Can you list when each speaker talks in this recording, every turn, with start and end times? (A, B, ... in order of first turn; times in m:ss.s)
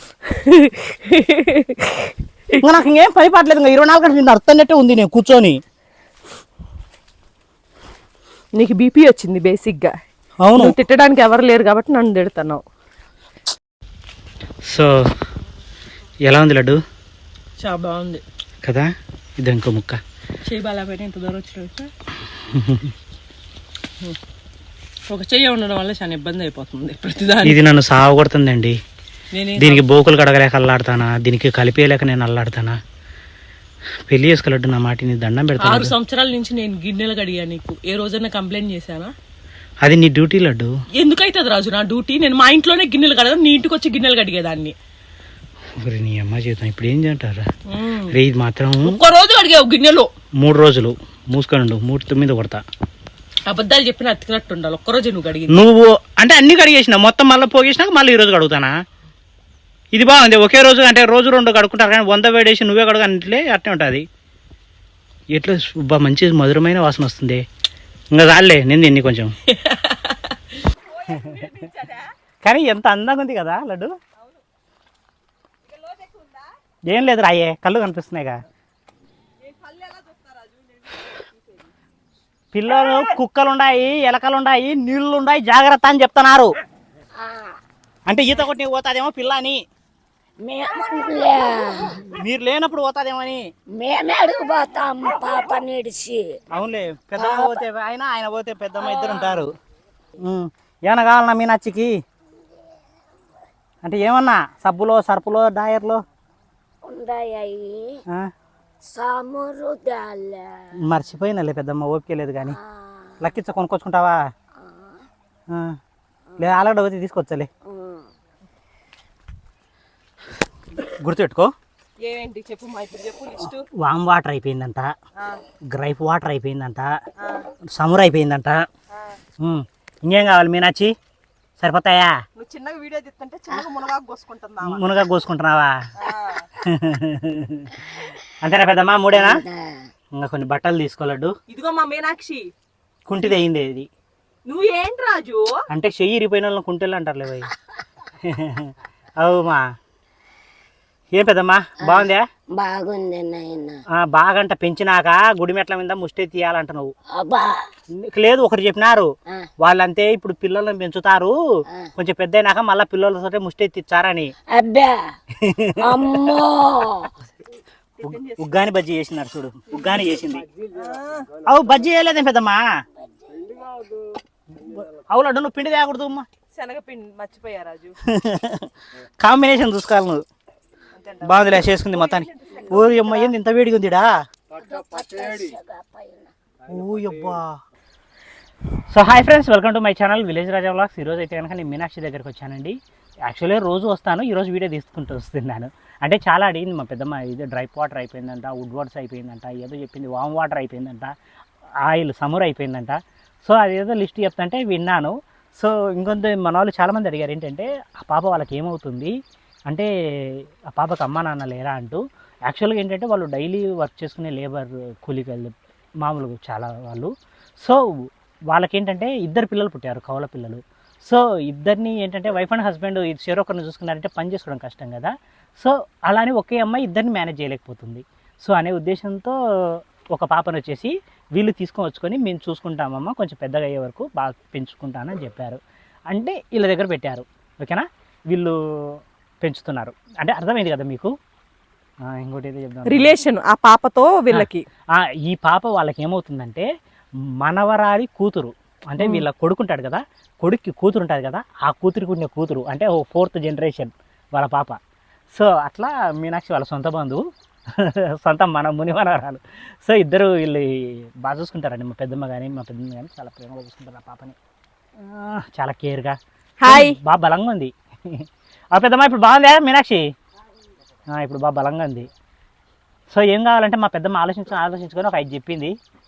0:00.2-0:02.2 A
0:02.6-0:05.6 B
0:08.6-0:09.9 A
0:10.4-0:10.8 B
0:10.5-0:12.6 A
0:14.7-0:14.9 B
0:16.2-0:16.8 B
0:17.6-0:18.2 A
0:18.6-0:20.0 B
0:20.4-0:21.9 A
0:22.3-0:22.9 B
0:25.1-0:27.6 A
0:27.4-0:28.8 B
0:29.3-0:29.8 A
0:29.6-0:32.8 B
0:34.1-0:35.9 B
0:35.6-0:39.1 A
0:39.8-0:40.7 B
0:41.0-0:44.7 A
0:45.8-0:47.4 B
0:47.7-0:48.1 A
0:48.1-0:49.0 B
0:48.8-0:50.1 A
0:50.4-0:52.6 B
0:53.4-0:55.6 A
0:55.5-0:58.7 B
0:59.9-1:04.0 B
1:05.3-1:07.4 B
1:08.1-1:09.3 B
1:09.5-1:12.1 A
1:11.2-1:11.5 B
1:12.4-1:13.9 B
1:15.7-1:16.5 A
1:16.9-1:18.4 B
1:19.4-1:21.4 A
1:22.5-1:26.5 B
1:27.2-1:27.5 C
1:28.1-1:29.6 B
1:30.4-1:32.1 C
1:32.1-1:33.4 B
1:33.7-1:36.4 C
1:36.5-1:39.5 B
1:37.2-1:37.6 C
1:38.8-1:39.3 C
1:40.2-1:41.9 B
1:43.8-1:46.0 B
1:46.8-1:48.0 C
1:48.8-1:50.7 C
1:50.8-1:52.6 B
1:52.5-1:53.2 C
1:53.2-1:54.2 B
1:55.5-1:55.8 B
1:56.4-1:57.5 B
1:57.6-1:58.1 C
2:00.8-2:01.5 B
2:02.0-2:03.6 A
2:03.8-2:04.9 B
2:05.7-2:06.9 B
2:07.2-2:07.5 A
2:07.7-2:08.6 B
2:09.4-2:10.9 B
2:11.6-2:12.2 B
2:12.4-2:14.9 A
2:14.6-2:15.8 B
2:16.0-2:16.5 A
2:16.6-2:19.4 B
2:19.2-2:19.8 C
2:20.1-2:21.3 B
2:21.5-2:22.5 A
2:23.1-2:23.9 B
2:24.4-2:25.6 A
2:25.7-2:27.5 B
2:28.2-2:29.7 B
2:31.1-2:32.2 B
2:31.8-2:33.8 C
2:33.9-2:36.9 B
2:37.1-2:37.7 C
2:38.0-2:39.1 B
2:39.6-2:41.4 B
2:42.0-2:44.3 B
2:44.5-2:45.1 C
2:45.4-2:46.4 B
2:45.8-2:47.1 C
2:48.0-2:48.4 A
2:48.0-2:50.5 B
2:50.7-2:51.3 A
2:51.4-2:52.6 B
2:54.5-2:56.2 B
2:56.5-2:58.0 A
2:58.0-3:00.2 B
3:00.9-3:03.3 A
3:01.2-3:04.1 B
3:04.5-3:06.3 C
3:06.6-3:07.5 B
3:08.9-3:21.1 B
3:21.8-3:29.1 B
3:29.7-3:55.6 B
3:56.1-4:01.1 B
4:02.1-4:03.2 B
4:02.9-4:04.6 A
4:04.3-4:06.7 B
4:07.4-4:14.8 B
4:09.0-4:09.2 A
4:15.3-4:17.2 B
4:17.7-4:24.4 B
4:25.0-4:30.0 B
4:26.6-4:27.0 A
4:31.1-4:32.1 B
4:33.1-4:35.7 B